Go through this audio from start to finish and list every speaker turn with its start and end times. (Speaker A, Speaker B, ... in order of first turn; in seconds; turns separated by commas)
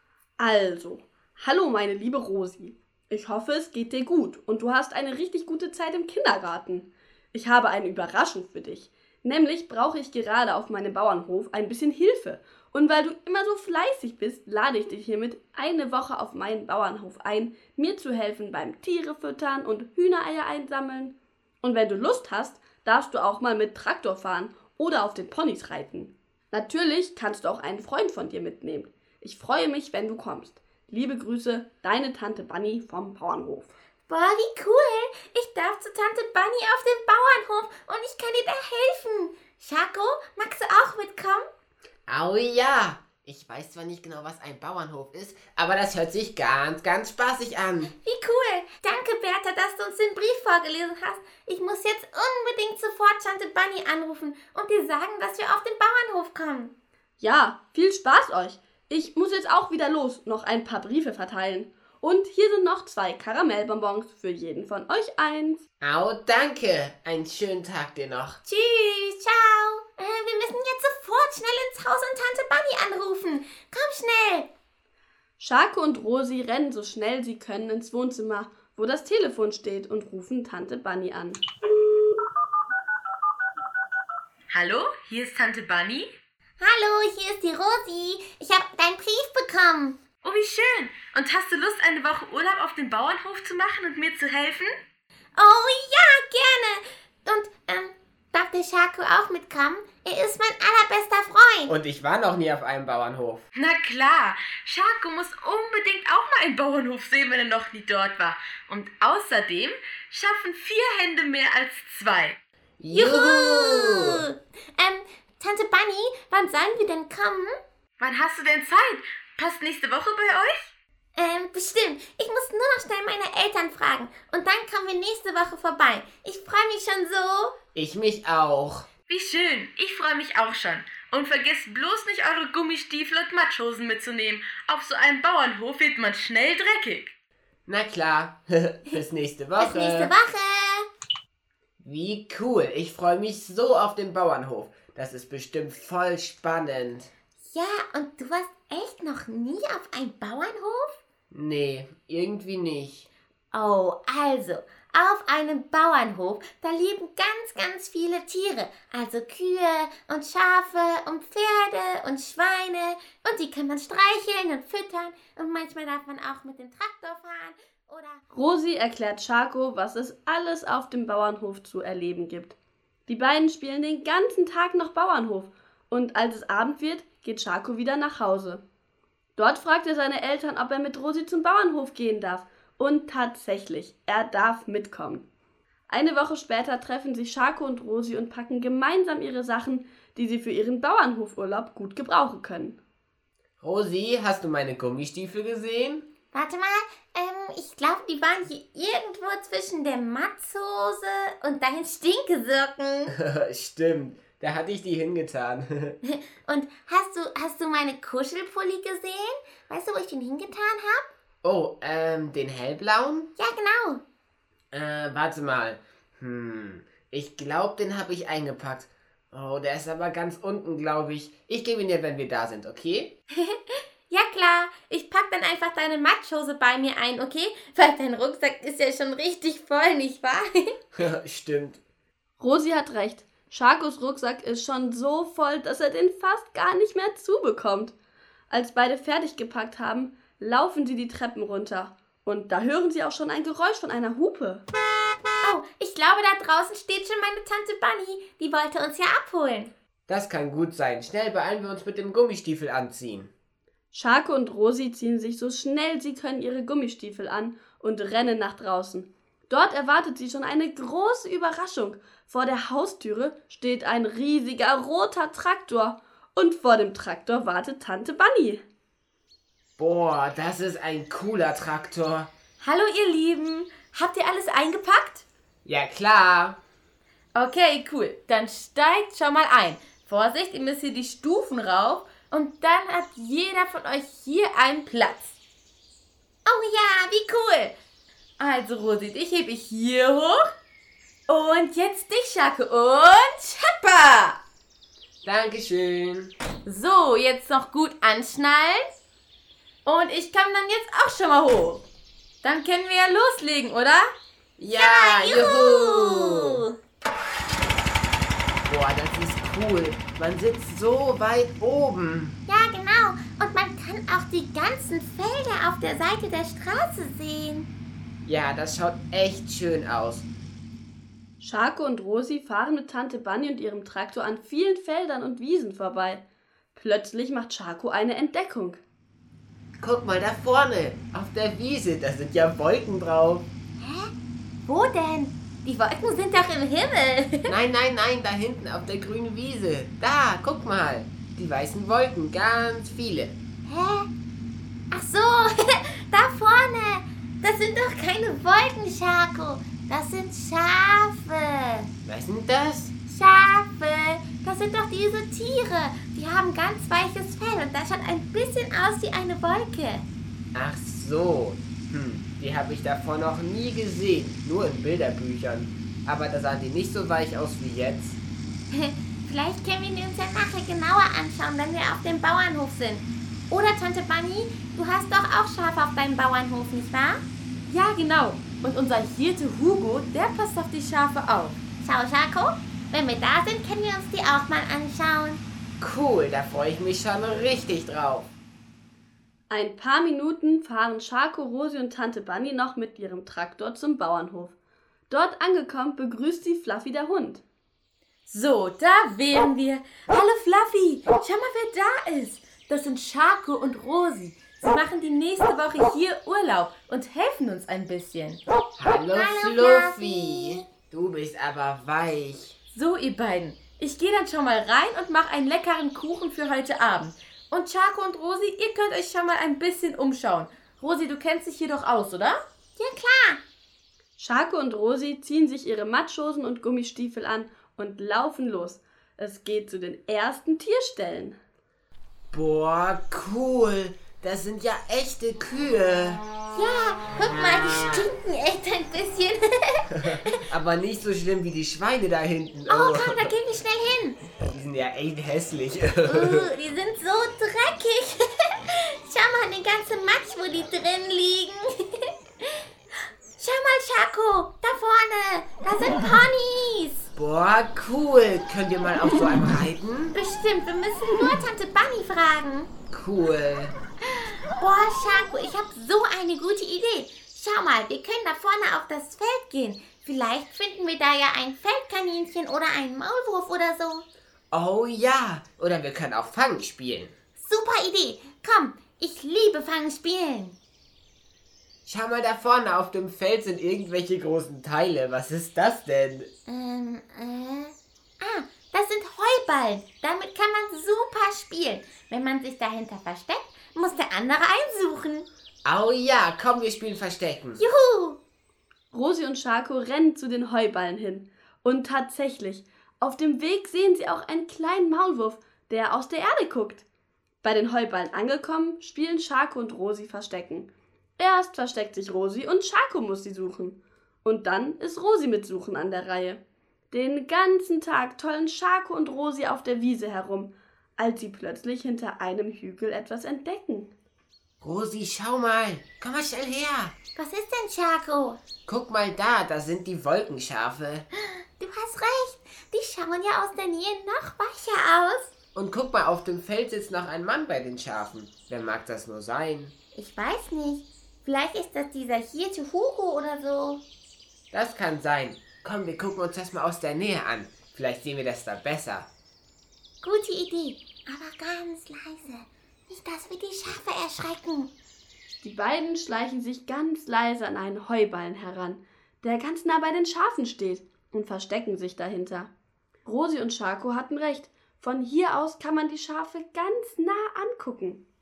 Speaker A: 0.4-33.7, Speaker B: 34.1-41.4, Speaker C: 42.1-47.9, Speaker B: 48.0-56.7, Speaker A: 57.2-65.6, Speaker C: 65.8-68.4, Speaker B: 68.4-74.5, Speaker A: 75.4-81.4, Speaker D: 84.5-86.1, Speaker B: 86.6-90.1, Speaker D: 90.2-94.7, Speaker B: 95.3-101.7, Speaker C: 101.7-103.5, Speaker D: 103.5-112.4, Speaker C: 112.8-114.2, Speaker B: 112.9-117.5, Speaker D: 118.0-120.7, Speaker B: 121.2-127.5, Speaker C: 127.7-128.9, Speaker D: 129.1-137.1, Speaker C: 137.7-140.1, Speaker B: 139.6-140.9, Speaker C: 141.8-147.1, Speaker B: 147.5-151.0, Speaker C: 151.3-153.1, Speaker B: 153.5-168.2, Speaker A: 168.3-172.6, Speaker A: 173.1-178.6, Speaker A: 179.4-185.2, Speaker A: 185.9-192.8, Speaker C: 193.6-196.1, Speaker B: 196.3-203.1, Speaker C: 203.1-205.9, Speaker B: 206.0-211.1, Speaker C: 211.4-213.3, Speaker B: 213.4-214.0, Speaker C: 214.7-223.1, Speaker B: 223.3-230.7, Speaker C: 231.0-231.8, Speaker A: 232.4-237.9, Speaker A: 238.5-244.6, Speaker B: 245.4-249.7, Speaker C: 250.1-253.3, Speaker A: 253.9-268.6, Speaker C: 269.8-272.3, Speaker D: 272.6-275.2, Speaker C: 275.6-276.6, Speaker D: 277.3-282.6, Speaker B: 277.4-285.2, Speaker D: 284.2-285.3, Speaker B: 286.4-287.7, Speaker B: 288.4-289.0, Speaker D: 288.4-290.3, Speaker B: 289.8-290.2, Speaker D: 291.3-294.4, Speaker C: 295.2-296.3, Speaker D: 296.6-298.8, Speaker D: 299.9-301.8, Speaker D: 302.4-304.1, Speaker C: 304.6-306.6, Speaker B: 304.7-306.7, Speaker C: 308.6-312.4, Speaker B: 312.5-317.7, Speaker C: 318.2-320.3, Speaker A: 321.4-326.2, Speaker A: 326.7-328.8, Speaker C: 329.8-333.5, Speaker B: 333.8-334.1, Speaker B: 334.7-337.5, Speaker C: 337.5-343.4, Speaker B: 343.6-344.1, Speaker B: 344.9-351.9, Speaker C: 352.0-352.9, Speaker B: 353.1-360.1, Speaker C: 360.5-368.2, Speaker B: 368.7-377.2, Speaker D: 377.7-381.6, Speaker B: 381.8-385.4, Speaker C: 385.8-388.3, Speaker A: 389.5-394.5, Speaker A: 395.1-397.4, Speaker D: 398.3-408.4, Speaker C: 408.8-412.6, Speaker B: 409.1-410.6, Speaker D: 412.7-422.4, Speaker B: 422.8-423.4, Speaker A: 424.2-431.4, Speaker C: 432.3-436.2, Speaker B: 436.5-440.4, Speaker C: 440.1-443.3, Speaker B: 442.7-444.2, Speaker C: 444.4-446.5, Speaker B: 446.1-451.7, Speaker B: 453.4-457.1, Speaker C: 457.1-460.2, Speaker B: 460.1-462.7, Speaker C: 462.9-463.8, Speaker B: 464.1-474.0, Speaker C: 474.5-477.1, Speaker B: 477.4-480.6, Speaker C: 481.9-486.3, Speaker B: 486.5-495.3, Speaker C: 495.6-497.6, Speaker B: 497.6-498.2, Speaker A: 498.9-506.8, Speaker A: 507.4-516.4, Speaker A: 516.9-523.9, Speaker C: 524.6-527.0, Speaker B: 527.1-528.4, Speaker C: 528.6-531.0, Speaker B: 531.6-535.3, Speaker C: 535.5-539.7, Speaker B: 539.9-543.8, Speaker C: 544.5-549.1, Speaker B: 550.0-554.7, Speaker A: 555.4-562.5, Speaker A: 563.0-568.0